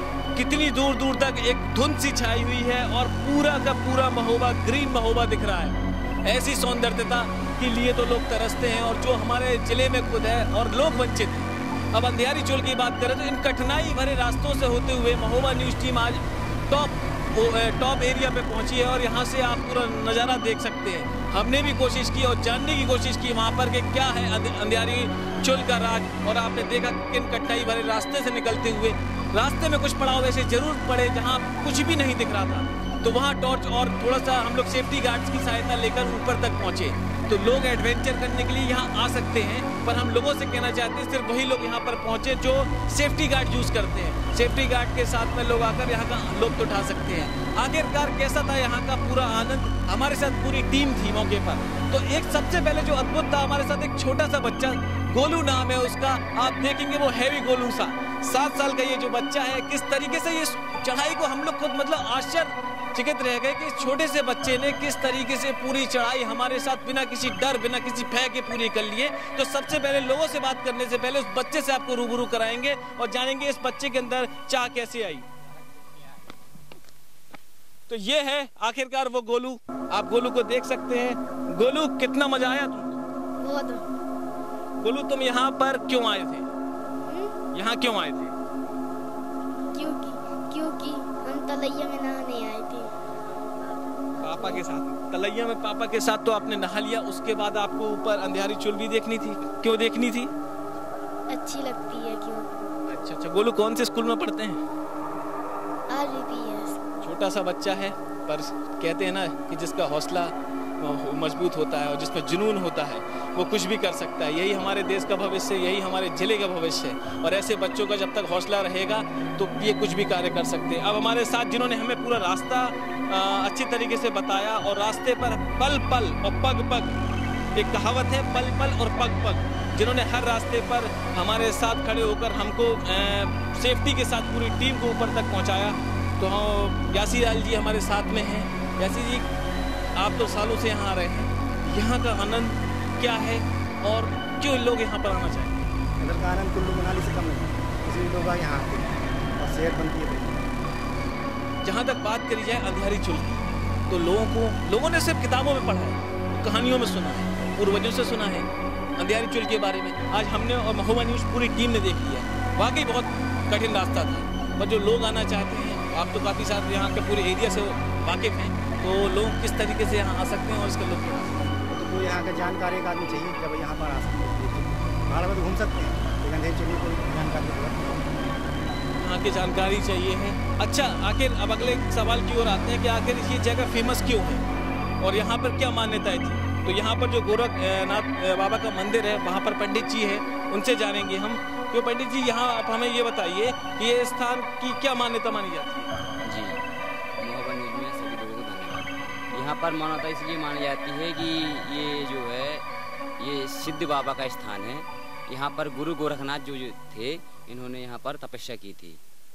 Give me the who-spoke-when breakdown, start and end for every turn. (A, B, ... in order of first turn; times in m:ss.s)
0:00.3-1:15.2 A
1:17.9-1:23.0 A
1:23.4-1:23.8 B
1:24.8-1:26.5 A
1:27.1-1:27.4 B
1:27.5-1:28.3 A
1:29.7-1:32.9 B
1:34.2-1:40.3 A
1:34.2-1:34.6 B
1:41.3-1:42.7 B
1:42.9-1:44.6 A
1:45.9-1:46.8 B
1:47.0-2:07.0 A
2:07.6-2:19.3 A
2:20.0-2:25.6 A
2:26.0-2:30.5 C
2:31.6-2:51.5 A
2:51.7-2:58.1 C
2:59.0-3:04.4 A
3:05.0-3:15.9 A
3:16.2-3:16.6 D
3:17.2-3:22.6 D
3:23.2-3:29.0 D